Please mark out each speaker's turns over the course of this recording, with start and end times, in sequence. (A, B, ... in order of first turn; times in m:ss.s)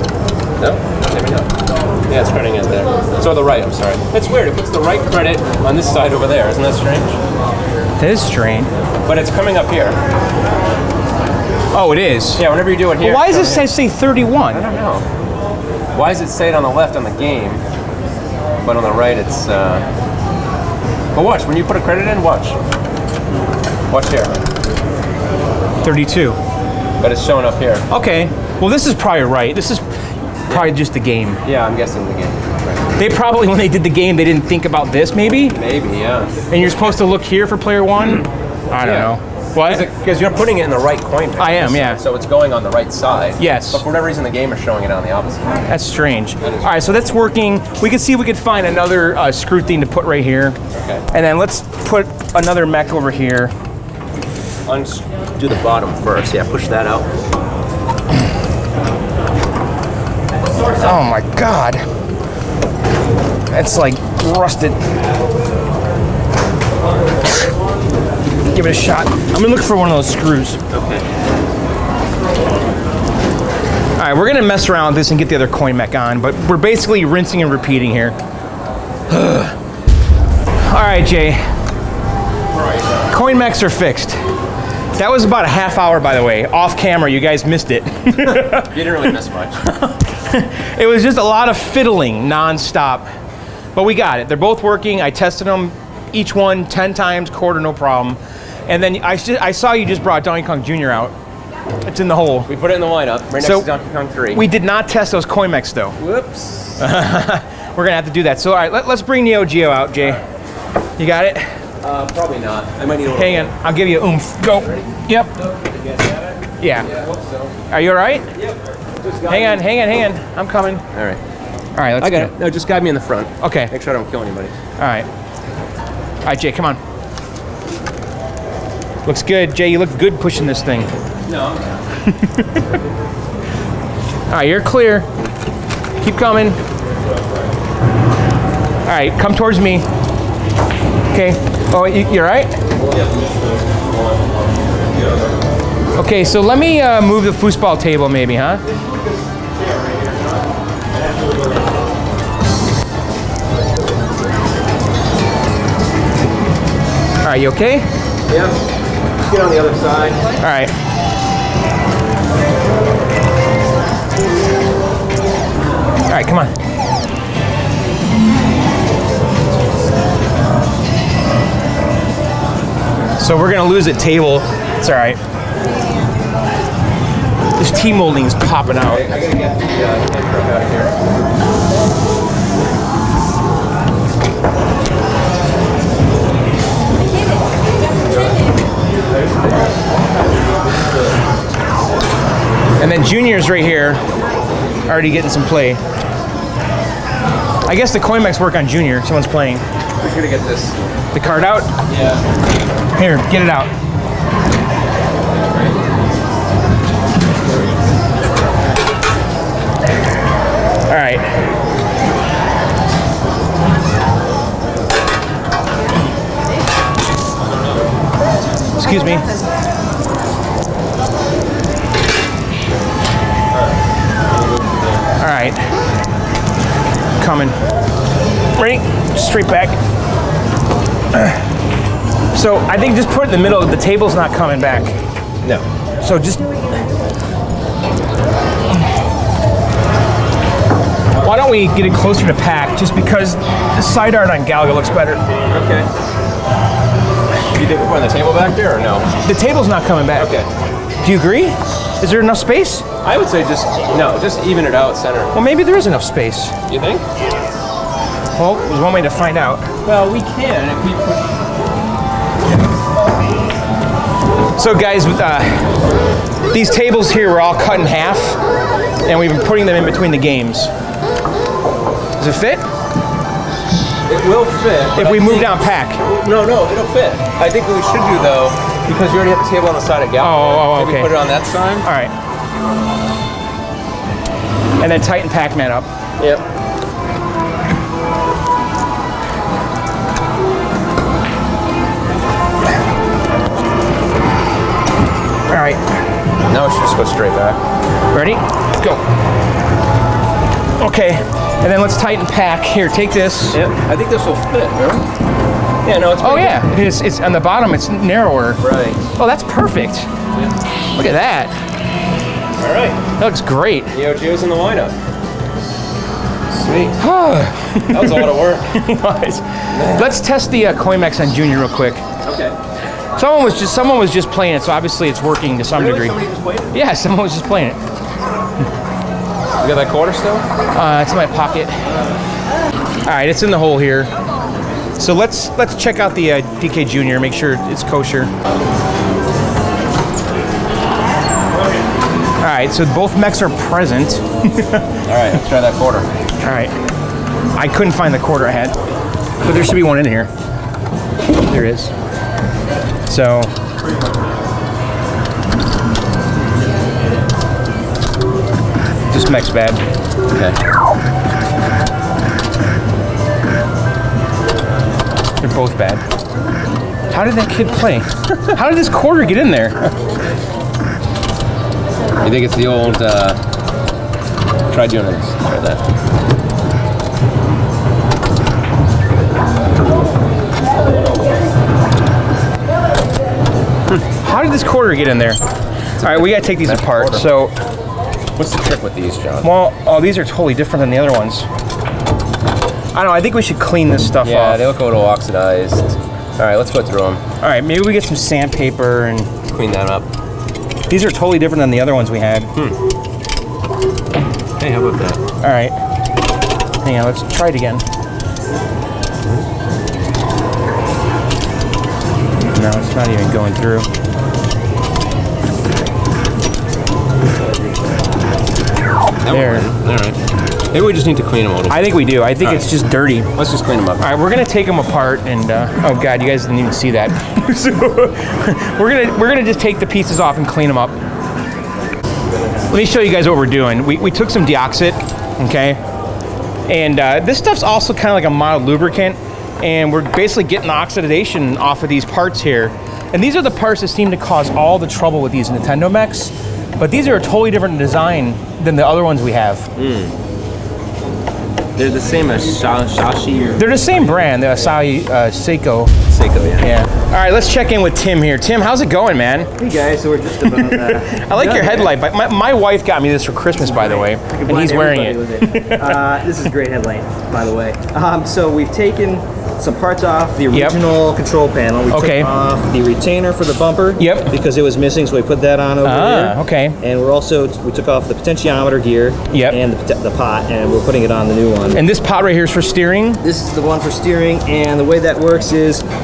0:00.6-0:01.5 A
0:02.1-0:07.2 A
0:08.0-0:08.7 B
0:09.0-0:10.0 A
0:11.7-0:12.4 B
0:12.4-0:13.6 A
0:13.0-0:14.6 B
0:14.5-0:15.0 A
0:15.9-0:17.6 A
0:18.6-0:19.8 A
0:21.1-0:22.6 A
0:23.9-0:24.4 A
0:25.8-0:26.4 B
0:27.0-0:27.9 A
0:27.9-0:29.9 B
0:30.5-0:31.4 B
0:31.4-0:32.8 A
0:33.0-0:35.6 B
0:35.5-0:36.4 A
0:36.5-0:39.9 B
0:38.8-0:45.6 A
0:41.4-0:42.0 B
0:43.4-0:43.8 B
0:45.7-0:50.6 B
0:46.4-0:46.7 A
0:50.7-0:51.1 A
0:51.1-0:53.5 B
0:54.7-0:57.1 A
1:00.8-1:01.8 B
1:03.5-1:04.8 B
1:08.5-1:10.6 B
1:10.7-1:11.0 A
1:14.0-1:18.2 B
1:19.1-1:19.6 B
1:20.6-1:21.5 B
1:22.5-1:23.0 A
1:23.1-1:24.2 B
1:24.9-1:29.1 B
1:28.3-1:29.6 A
1:29.6-1:33.1 B
1:33.7-1:41.1 B
1:41.8-1:42.5 B
1:42.5-1:44.4 A
1:43.4-1:43.7 B
1:44.3-1:46.0 B
1:46.0-1:46.9 A
1:46.8-1:50.2 B
1:51.0-1:51.6 B
1:51.8-1:53.5 A
1:53.1-1:55.3 B
1:55.4-1:57.5 A
1:56.6-1:56.9 B
1:57.7-1:58.3 B
1:58.3-1:59.7 A
1:59.3-2:00.8 B
2:00.9-2:01.2 A
2:01.7-2:02.3 B
2:02.0-2:04.5 A
2:03.4-2:03.7 B
2:04.8-2:05.1 B
2:06.2-2:06.8 B
2:09.0-2:10.9 B
2:11.3-2:11.6 A
2:12.0-2:12.6 B
2:14.3-2:15.1 B
2:16.0-2:16.6 B
2:18.8-2:19.8 B
2:21.1-2:22.6 B
2:22.9-2:23.3 A
2:26.0-2:28.6 B
2:29.8-2:30.1 A
2:37.2-2:37.9 B
2:38.3-2:38.6 A
2:39.2-2:40.3 A
2:40.4-2:40.7 B
2:46.0-2:46.5 B
2:53.2-2:55.2 B
2:57.6-2:59.1 B
2:58.8-3:01.0 A
3:09.2-3:09.7 A
3:12.8-3:14.0 B
3:14.9-3:15.8 B
3:17.6-3:19.6 B
3:20.0-3:20.8 A
3:21.1-3:21.7 B
3:21.9-3:22.2 A
3:23.0-3:23.7 B
3:25.5-3:25.7 A
3:30.9-3:31.3 B
3:38.8-3:39.3 B
3:45.2-3:45.6 B
3:47.2-3:47.6 B
3:48.5-3:49.8 B
3:51.1-3:51.4 B
3:52.3-3:55.0 B
3:56.0-3:56.6 B
4:01.2-4:05.3 B
4:05.5-4:05.9 A
4:07.5-4:09.1 A
4:09.2-4:10.4 B
4:10.2-4:10.5 A
4:11.0-4:12.8 B
4:13.0-4:15.4 A
4:15.3-4:16.5 B
4:16.7-4:17.0 A
4:18.3-4:19.7 B
4:19.8-4:21.4 A
4:24.6-4:25.7 B
4:26.5-4:28.4 B
4:29.0-4:30.7 B
4:32.2-4:32.6 B
4:34.0-4:41.9 A
4:34.9-4:36.0 B
4:40.2-4:41.2 B
4:41.8-4:42.1 B
4:44.8-4:45.9 B
4:46.2-4:46.4 A
4:55.5-4:55.8 B
4:56.5-4:57.6 A
4:58.1-4:59.0 B
5:00.8-5:03.6 B
5:03.5-5:05.0 A
5:05.8-5:06.6 A
5:06.2-5:08.6 B
5:08.6-5:09.0 A
5:09.1-5:10.1 B
5:10.9-5:11.6 B
5:12.6-5:13.0 A
5:13.2-5:13.9 B
5:13.9-5:14.9 A
5:16.5-5:17.0 A
5:17.0-5:22.0 B
5:17.9-5:18.8 A
5:19.7-5:20.2 A
5:22.2-5:22.6 A
5:23.2-5:26.2 B
5:25.7-5:26.8 A
5:26.7-5:27.8 B
5:29.6-5:30.4 A
5:30.7-5:31.7 B
5:33.0-5:34.1 B
5:35.0-5:38.3 B
5:42.4-5:44.9 B
5:45.0-5:46.1 A
5:46.4-5:46.7 B
5:47.5-5:48.8 B
5:49.4-5:50.3 B
5:51.4-5:51.9 B
5:53.1-5:53.5 B
5:59.1-5:59.8 B
6:00.3-6:00.6 A
6:05.4-6:06.0 B
6:07.1-6:09.9 B
6:12.2-6:13.4 A
6:14.7-6:15.8 A
6:24.2-6:25.4 B
6:26.0-6:27.6 B
6:26.0-6:27.3 A
6:28.4-6:29.5 A
6:29.4-6:31.5 B
6:32.9-6:34.6 B
6:34.2-6:37.2 A
6:37.4-6:39.3 B
6:39.5-6:40.1 A
6:40.9-6:42.5 B
6:44.6-6:45.2 A
6:45.4-6:45.8 B
6:46.8-6:47.8 B
6:52.5-6:53.9 B
6:59.2-7:01.9 A
6:59.3-6:59.7 B
7:01.7-7:03.3 B
7:02.4-7:02.7 A
7:03.3-7:04.1 A
7:04.0-7:11.0 B
7:12.7-7:15.8 B
7:16.7-7:29.7 B
7:29.8-7:30.1 A
7:31.8-7:34.7 A
7:33.6-7:36.0 B
7:36.1-7:36.7 A
7:36.6-7:39.5 B
7:39.6-7:41.9 C
7:40.4-7:46.1 B
7:43.7-8:01.8 C
7:50.5-7:50.8 B
7:51.9-7:52.3 B
7:54.0-7:54.3 B
7:55.8-7:56.8 B
7:59.3-7:59.6 B
8:01.7-8:03.2 B
8:03.2-8:05.8 C